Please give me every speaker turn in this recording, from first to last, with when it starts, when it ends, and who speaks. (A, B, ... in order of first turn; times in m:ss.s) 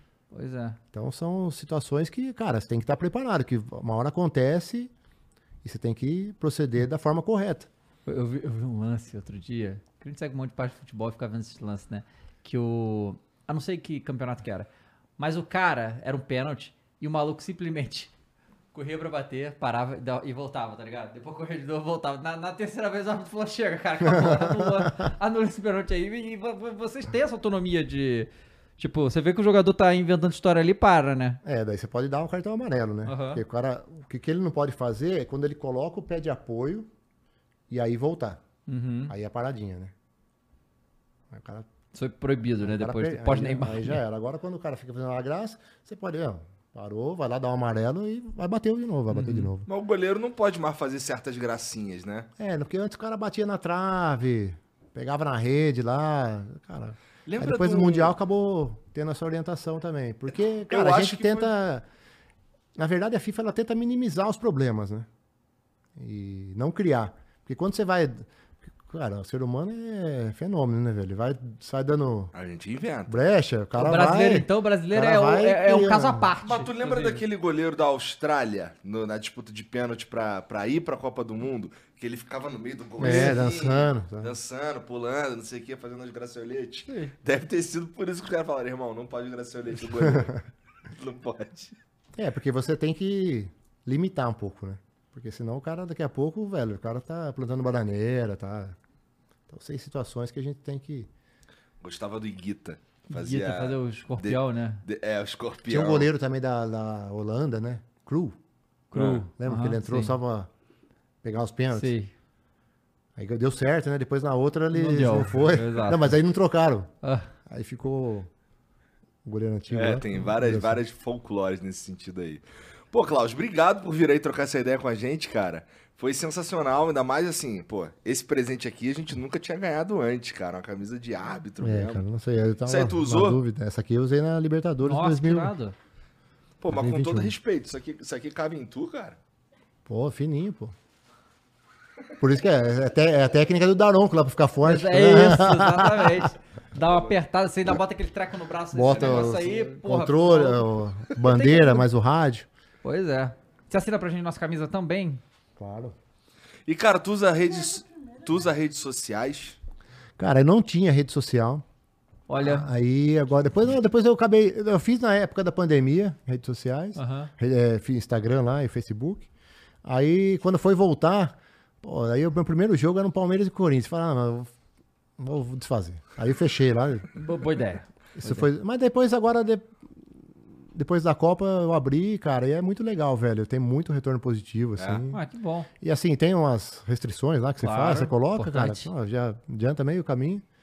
0:00.3-0:00.8 A
0:00.9-0:04.9 B
0:05.6-0:07.7 B
0:08.0-0:18.1 A
0:18.7-0:31.4 A
0:24.0-0:25.0 B
0:31.4-0:36.9 B
0:33.0-0:33.4 A
0:37.7-0:38.4 B
0:38.7-0:39.1 A
0:39.1-0:39.9 B
0:41.3-0:41.7 B
0:41.9-0:44.0 A
0:42.6-0:49.7 B
0:49.1-0:49.5 A
0:49.6-0:52.3 C
0:52.4-1:01.8 B
0:57.2-0:58.2 C
1:00.7-1:01.5 C
1:02.8-1:05.1 B
1:06.0-1:08.3 B
1:08.8-1:12.3 B
1:12.3-1:13.2 C
1:13.1-1:16.3 B
1:13.8-1:17.2 A
1:16.4-1:31.8 C
1:23.0-1:24.3 B
1:23.0-1:23.3 A
1:26.9-1:27.1 A
1:30.0-1:30.3 B
1:32.2-1:38.8 B
1:39.5-1:41.1 B
1:41.8-1:46.1 C
1:43.1-1:44.8 A
1:45.7-1:48.4 B
1:48.9-1:50.2 A
1:48.9-1:49.2 C
1:49.3-1:50.5 B
1:51.2-1:51.9 B
1:51.7-1:52.1 A
1:53.2-1:56.9 B
1:54.7-1:56.2 A
1:57.0-1:57.3 A
1:57.5-1:58.3 B
1:59.2-2:00.8 B
1:59.7-2:12.0 C
2:11.6-2:15.5 B
2:12.6-2:13.4 C
2:14.8-2:15.7 A
2:16.6-2:19.2 C
2:16.7-2:17.3 B
2:19.8-2:20.7 B
2:22.2-2:26.3 B
2:24.6-2:31.8 A
2:26.8-2:27.1 C
2:28.7-2:32.5 B
2:28.9-2:29.4 C
2:32.8-2:35.2 A
2:35.6-2:35.9 B
2:36.7-2:39.6 C
2:40.2-2:41.6 B
2:42.3-2:42.6 A
2:42.4-2:49.3 B
2:47.0-2:47.3 A
2:49.8-2:54.5 B
2:55.2-2:57.1 B
2:57.1-2:58.5 A
2:58.2-2:59.7 B
3:00.7-3:05.2 B
3:04.8-3:05.0 C
3:05.1-3:05.7 A
3:05.8-3:10.4 B
3:07.6-3:08.9 A